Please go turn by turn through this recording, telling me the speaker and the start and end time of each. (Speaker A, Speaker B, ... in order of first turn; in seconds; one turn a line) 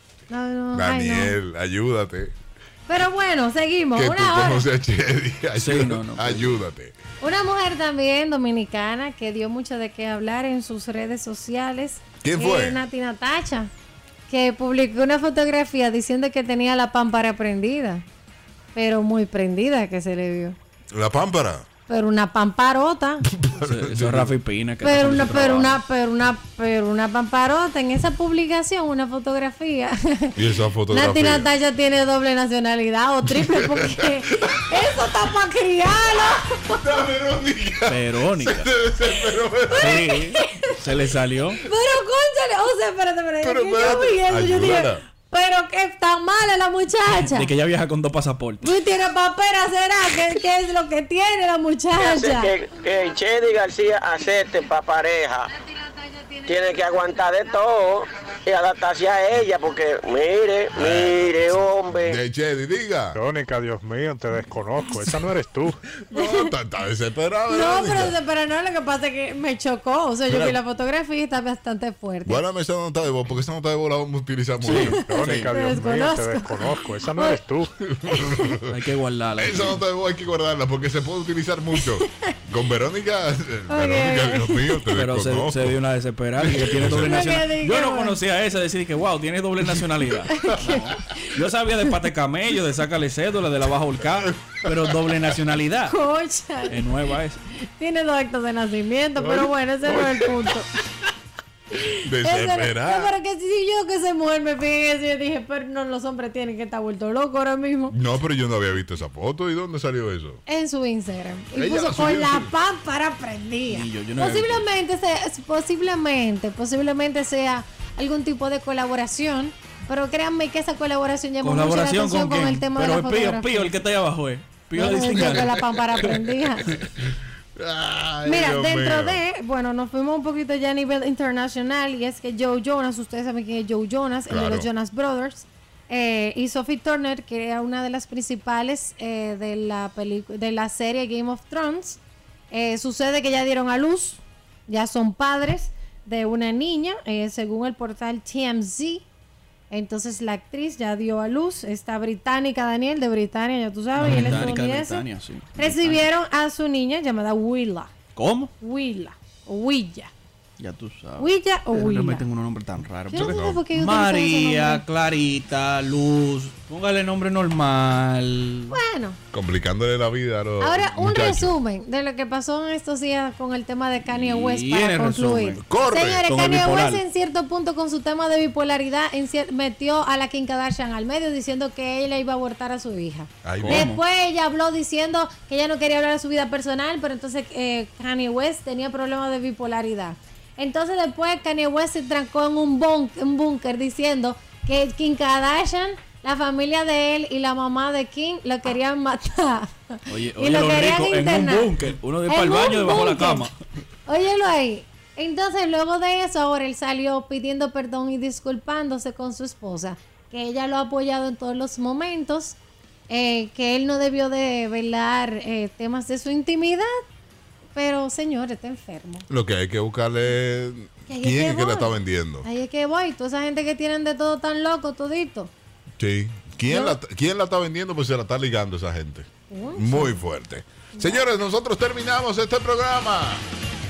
Speaker A: 0.3-1.4
Speaker B: 0.7-2.3
Speaker A: 2.9-4.7
Speaker B: 4.0-7.0
Speaker C: 5.6-6.6
Speaker A: 7.2-13.7
Speaker B: 12.2-12.8
Speaker A: 14.3-18.1
Speaker A: 18.7-20.6
Speaker B: 20.9-21.7
Speaker A: 21.9-23.2
Speaker B: 23.3-24.3
Speaker C: 23.6-25.8
Speaker A: 24.8-36.8
Speaker B: 30.4-31.5
Speaker B: 33.4-35.1
Speaker B: 36.4-40.1
Speaker C: 37.9-38.7
Speaker A: 39.7-40.8
Speaker C: 39.8-41.6
Speaker A: 41.6-47.5
Speaker B: 43.4-45.0
Speaker C: 47.1-48.8
Speaker A: 48.6-52.6
Speaker D: 52.0-55.5
Speaker A: 55.5-57.6
Speaker D: 56.5-62.2
Speaker B: 60.7-63.2
Speaker E: 63.1-65.8
Speaker B: 66.1-68.2
Speaker A: 66.1-66.5
Speaker A: 67.5-72.4
Speaker B: 70.3-70.6
Speaker B: 72.3-75.0
Speaker C: 74.6-75.6
Speaker A: 74.8-77.4
Speaker E: 74.9-77.7
Speaker B: 77.9-78.8
Speaker A: 78.2-78.6
Speaker C: 78.7-79.8
Speaker B: 79.4-85.8
Speaker A: 81.8-82.3
Speaker A: 83.7-84.8
Speaker C: 84.9-96.0
Speaker B: 86.4-87.2
Speaker A: 86.9-88.2
Speaker A: 90.3-91.9
Speaker B: 94.2-94.8
Speaker A: 95.9-96.8
Speaker C: 96.7-97.4
Speaker A: 97.7-100.7
Speaker B: 99.2-100.5
Speaker A: 101.7-108.0
Speaker B: 102.0-103.2
Speaker B: 107.9-110.4
Speaker A: 110.5-123.7
Speaker B: 111.5-112.5
Speaker C: 113.7-114.6
Speaker C: 121.4-125.7
Speaker A: 124.7-126.8
Speaker B: 125.2-129.2
Speaker A: 128.2-142.0
Speaker B: 134.3-134.7
Speaker A: 142.5-149.1
Speaker A: 149.7-155.0
Speaker C: 154.0-156.1
Speaker A: 155.6-157.9
Speaker C: 158.2-158.5
Speaker A: 158.6-160.1
Speaker C: 160.6-168.8
Speaker A: 161.2-162.2
Speaker B: 163.1-163.6
Speaker A: 163.1-164.8
Speaker A: 168.7-169.2
Speaker B: 169.3-171.6
Speaker A: 170.6-201.7
Speaker C: 174.1-175.6
Speaker B: 175.6-176.3
Speaker C: 176.3-177.0
Speaker B: 183.4-183.9
Speaker C: 183.6-184.0
Speaker C: 200.1-203.6
Speaker A: 202.3-203.5
Speaker A: 204.1-212.6
Speaker A: 213.1-216.9
Speaker A: 217.8-219.3
Speaker B: 219.3-222.5
Speaker A: 221.1-225.5
Speaker B: 226.0-233.4
Speaker A: 226.7-227.0
Speaker A: 229.5-230.2
Speaker A: 230.9-231.3